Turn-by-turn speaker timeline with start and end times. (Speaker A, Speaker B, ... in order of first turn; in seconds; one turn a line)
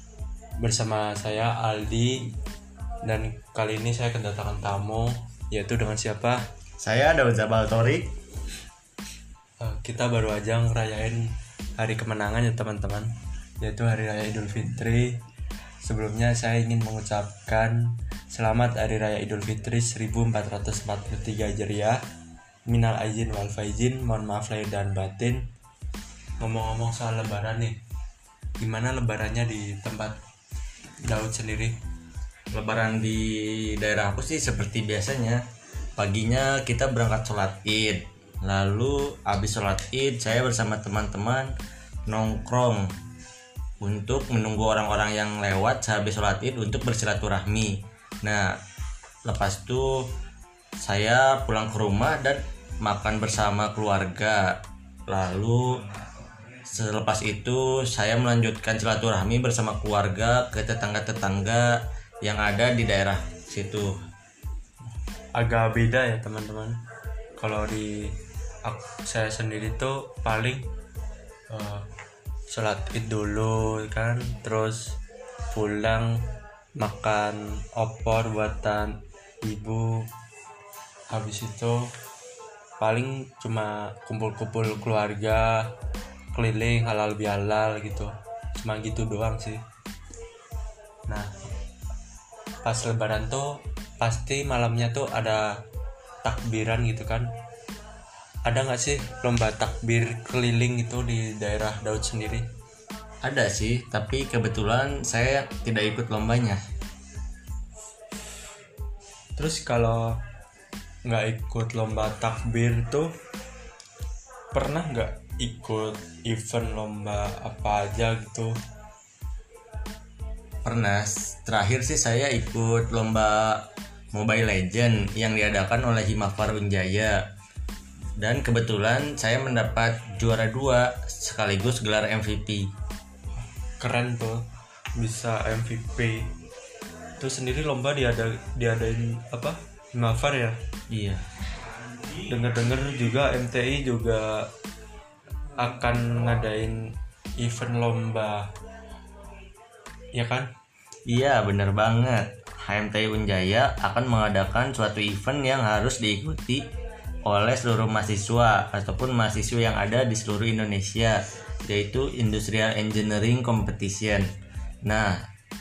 Speaker A: 0.6-2.3
Speaker A: 3.0-6.5
Speaker B: 6.8-8.1
Speaker A: 9.6-15.2
Speaker A: 15.8-22.0
Speaker A: 22.7-25.4
Speaker A: 26.4-27.8
Speaker A: 28.6-30.2
Speaker A: 31.0-31.8
Speaker B: 32.5-35.4
Speaker B: 36.0-41.5
Speaker B: 42.1-42.9
Speaker B: 43.8-47.7
Speaker B: 49.2-49.9
Speaker B: 50.8-54.6
Speaker B: 55.1-55.6
Speaker B: 56.6-61.7
Speaker B: 62.2-63.9
Speaker A: 65.3-66.8
Speaker A: 67.3-68.1
Speaker A: 68.6-70.6
Speaker A: 71.5-71.8
Speaker A: 72.5-74.9
Speaker A: 75.5-76.2
Speaker A: 76.8-80.0
Speaker A: 81.1-81.8
Speaker A: 82.8-85.6
Speaker A: 86.3-89.6
Speaker A: 92.6-95.5
Speaker A: 96.2-97.3
Speaker A: 98.5-102.5
Speaker B: 103.2-106.6
Speaker A: 109.3-110.2
Speaker A: 111.0-113.1
Speaker A: 114.5-118.5
Speaker B: 120.6-127.2
Speaker B: 128.2-132.7
Speaker A: 133.4-134.4
Speaker A: 134.9-136.3
Speaker A: 137.2-140.6
Speaker B: 140.9-141.2
Speaker A: 142.3-144.5
Speaker A: 145.6-146.8
Speaker A: 147.4-148.5
Speaker A: 150.2-150.5
Speaker B: 151.1-156.6
Speaker B: 157.3-161.2
Speaker B: 161.7-164.2
Speaker B: 164.8-165.2